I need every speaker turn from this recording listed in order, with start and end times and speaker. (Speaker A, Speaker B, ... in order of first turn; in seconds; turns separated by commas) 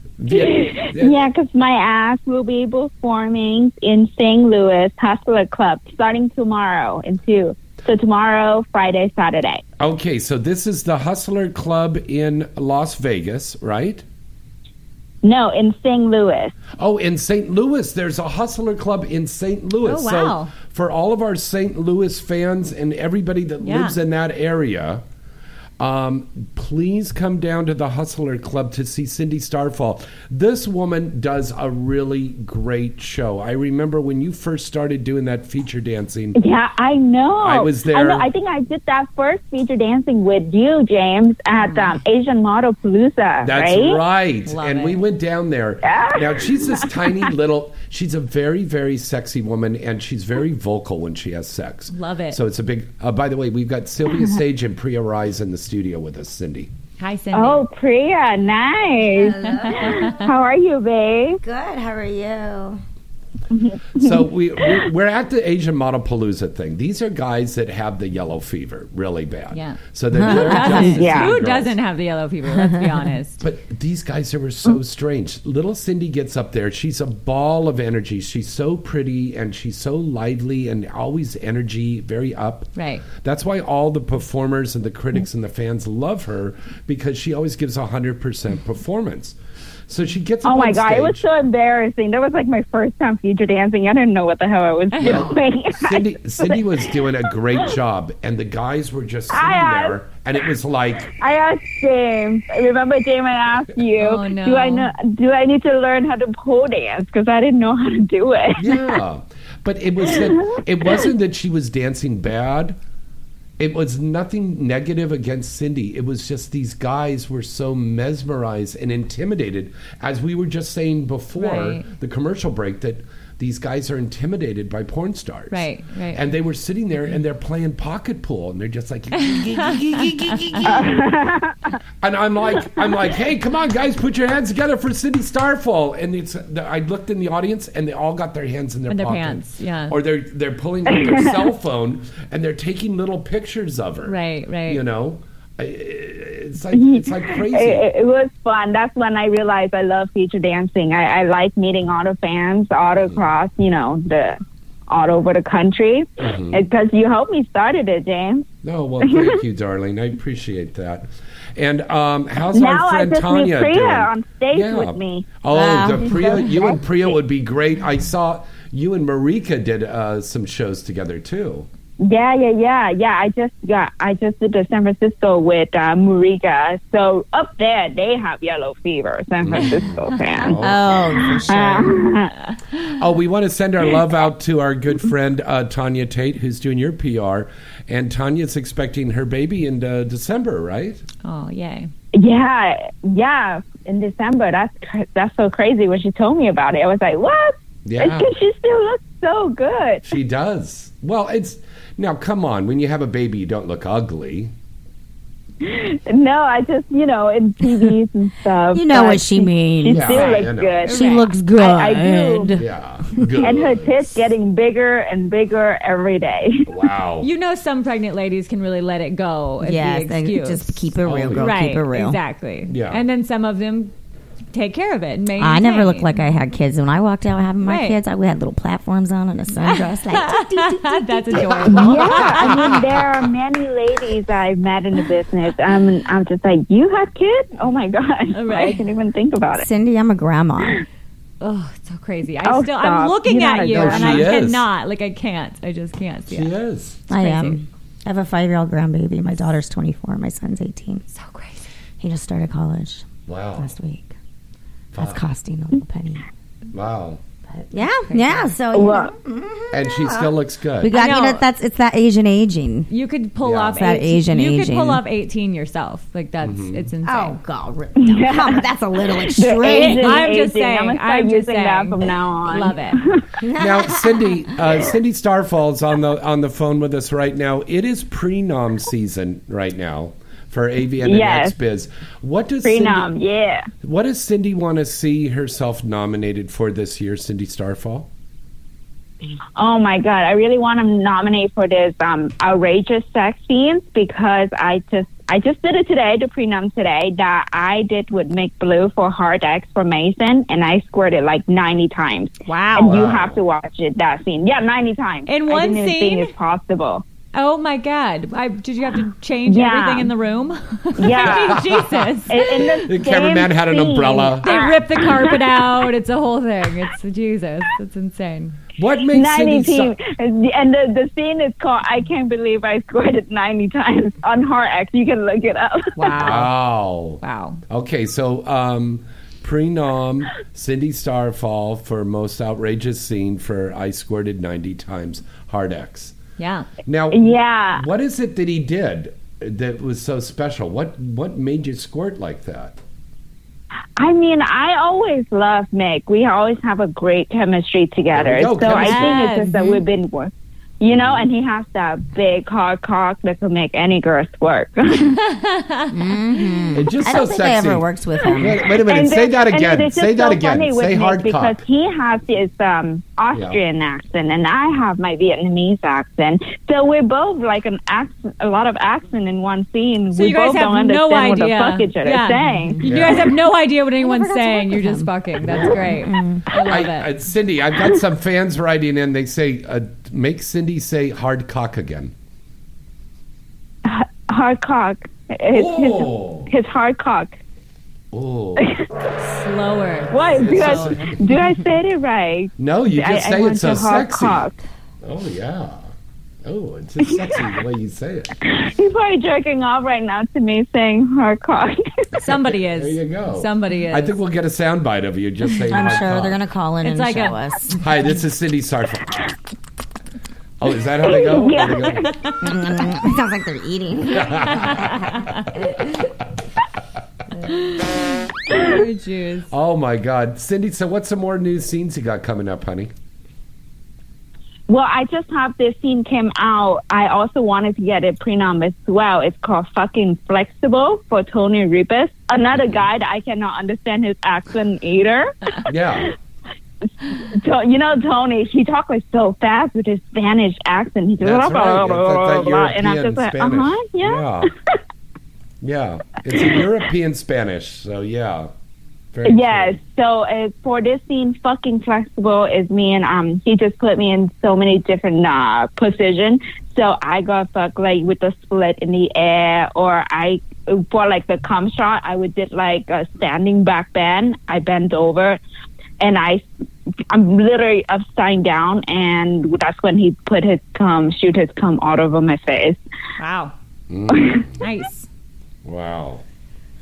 Speaker A: 0.2-1.2, Speaker B: 0.3-9.6, Speaker A: 9.8-14.0, Speaker B: 15.2-16.5, Speaker A: 16.8-25.0, Speaker C: 19.8-20.5, Speaker C: 23.6-23.9, Speaker A: 25.8-36.4, Speaker B: 36.3-44.0, Speaker A: 37.4-38.3, Speaker C: 41.5-42.0, Speaker A: 43.4-56.7, Speaker C: 44.5-45.0, Speaker B: 45.8-47.3, Speaker C: 51.9-52.4, Speaker C: 57.0-57.7, Speaker B: 57.3-61.4, Speaker D: 59.1-60.1, Speaker C: 59.4-60.3, Speaker D: 61.4-62.8, Speaker B: 63.5-64.9, Speaker A: 64.0-71.8, Speaker C: 69.5-73.4, Speaker D: 70.1-71.0, Speaker B: 70.9-71.3, Speaker D: 72.5-72.9, Speaker A: 73.4-89.4, Speaker C: 82.8-83.0, Speaker A: 89.9-91.2, Speaker B: 90.4-97.0, Speaker C: 94.9-95.3, Speaker A: 95.0-101.1, Speaker B: 99.3-100.0, Speaker B: 101.1-108.9, Speaker C: 104.0-104.9, Speaker A: 108.5-112.8, Speaker B: 110.1-110.5, Speaker A: 113.6-131.1, Speaker C: 121.4-121.9, Speaker C: 125.5-126.2, Speaker C: 129.2-130.7, Speaker B: 130.7-131.6, Speaker A: 132.0-147.9, Speaker C: 138.9-139.9, Speaker B: 140.9-141.3, Speaker C: 144.1-144.8, Speaker B: 146.7-158.5, Speaker A: 152.9-153.2, Speaker A: 156.2-156.6, Speaker A: 158.6-171.7, Speaker B: 159.0-159.4, Speaker B: 162.5-165.3, Speaker D: 165.5-166.8, Speaker B: 166.1-166.8, Speaker B: 172.0-180.6, Speaker A: 179.4-181.1, Speaker D: 180.5-181.9, Speaker B: 181.5-182.3, Speaker A: 182.9-191.0, Speaker C: 191.2-191.9, Speaker B: 192.1-200.0, Speaker A: 197.8-198.3, Speaker A: 200.0-204.5, Speaker B: 205.6-212.6, Speaker D: 208.7-212.6, Speaker A: 209.9-210.8, Speaker C: 210.8-211.3, Speaker A: 212.5-214.2, Speaker B: 213.4-216.7, Speaker A: 216.7-217.3, Speaker C: 217.2-220.9, Speaker D: 219.6-222.2, Speaker A: 221.0-221.5, Speaker C: 221.4-223.9, Speaker A: 222.7-223.0, Speaker C: 224.5-226.2, Speaker D: 225.4-232.0, Speaker C: 227.6-228.0, Speaker C: 229.6-232.7, Speaker B: 231.7-239.7, Speaker A: 232.0-232.9, Speaker C: 238.3-238.8, Speaker D: 239.5-240.8, Speaker C: 241.4-246.5, Speaker B: 242.4-244.2, Speaker A: 243.7-244.7, Speaker A: 246.3-247.0, Speaker D: 247.1-251.0, Speaker C: 247.1-247.6, Speaker C: 251.1-251.6, Speaker D: 252.0-254.1, Speaker A: 253.3-253.7, Speaker A: 254.9-255.2, Speaker D: 254.9-256.2, Speaker A: 256.7-257.2, Speaker D: 257.6-262.9, Speaker C: 258.0-258.5, Speaker B: 258.7-259.1, Speaker A: 259.7-260.9, Speaker C: 260.9-261.4, Speaker C: 262.9-267.4, Speaker A: 263.4-263.8, Speaker D: 263.7-265.0, Speaker A: 266.4-266.9, Speaker D: 267.0-270.2, Speaker B: 268.0-273.2, Speaker C: 269.6-273.0, Speaker D: 273.4-274.5, Speaker A: 273.6-283.1, Speaker B: 281.0-281.5, Speaker B: 282.6-283.7, Speaker A: 283.8-288.1, Speaker B: 289.6-307.0, Speaker C: 302.4-303.0, Speaker A: 302.8-303.4, Speaker C: 305.2-306.3, Speaker C: 307.3-312.6, Speaker B: 309.4-310.1, Speaker B: 311.0-311.6, Speaker A: 311.1-314.5, Speaker B: 312.3-315.6, Speaker C: 314.4-318.6, Speaker A: 318.8-319.9, Speaker B: 319.1-326.1, Speaker C: 325.9-326.5, Speaker A: 326.2-336.1, Speaker C: 327.2-327.6, Speaker C: 336.4-336.7, Speaker A: 336.9-342.8, Speaker B: 337.1-337.8, Speaker B: 344.0-355.2, Speaker A: 348.1-349.2, Speaker C: 348.6-349.8, Speaker A: 350.9-351.3, Speaker C: 355.2-355.9, Speaker D: 355.9-358.7, Speaker A: 356.7-361.6, Speaker B: 358.2-372.8, Speaker A: 363.3-363.6, Speaker C: 370.1-377.1, Speaker A: 372.8-373.2, Speaker D: 372.9-373.1, Speaker D: 373.9-376.4, Speaker A: 375.4-382.1, Speaker B: 383.8-387.4, Speaker A: 385.5-386.5, Speaker A: 388.1-388.7, Speaker C: 389.2-391.2, Speaker B: 390.1-394.6, Speaker A: 390.1-391.1, Speaker A: 392.6-394.5, Speaker A: 395.0-395.9, Speaker A: 396.4-398.3, Speaker B: 397.0-397.4, Speaker B: 398.4-402.1, Speaker A: 402.1-406.4, Speaker C: 402.2-404.1, Speaker D: 405.7-407.8, Speaker C: 406.8-407.4, Speaker A: 407.8-409.2, Speaker A: 410.6-412.1, Speaker B: 411.0-412.1, Speaker C: 412.0-412.3, Speaker D: 412.4-414.9, Speaker A: 414.1-414.9, Speaker C: 414.5-415.4, Speaker C: 418.5-419.5, Speaker A: 419.5-422.9, Speaker B: 424.7-435.3, Speaker A: 432.5-432.9, Speaker A: 435.6-436.1, Speaker B: 437.3-444.2, Speaker A: 441.2-444.5, Speaker A: 445.6-448.5, Speaker A: 449.1-449.8, Speaker B: 449.2-465.4, Speaker B: 466.0-466.5, Speaker B: 467.1-472.8, Speaker C: 473.2-473.5, Speaker A: 473.9-474.6, Speaker B: 474.1-474.4, Speaker C: 474.6-475.1, Speaker A: 475.6-476.2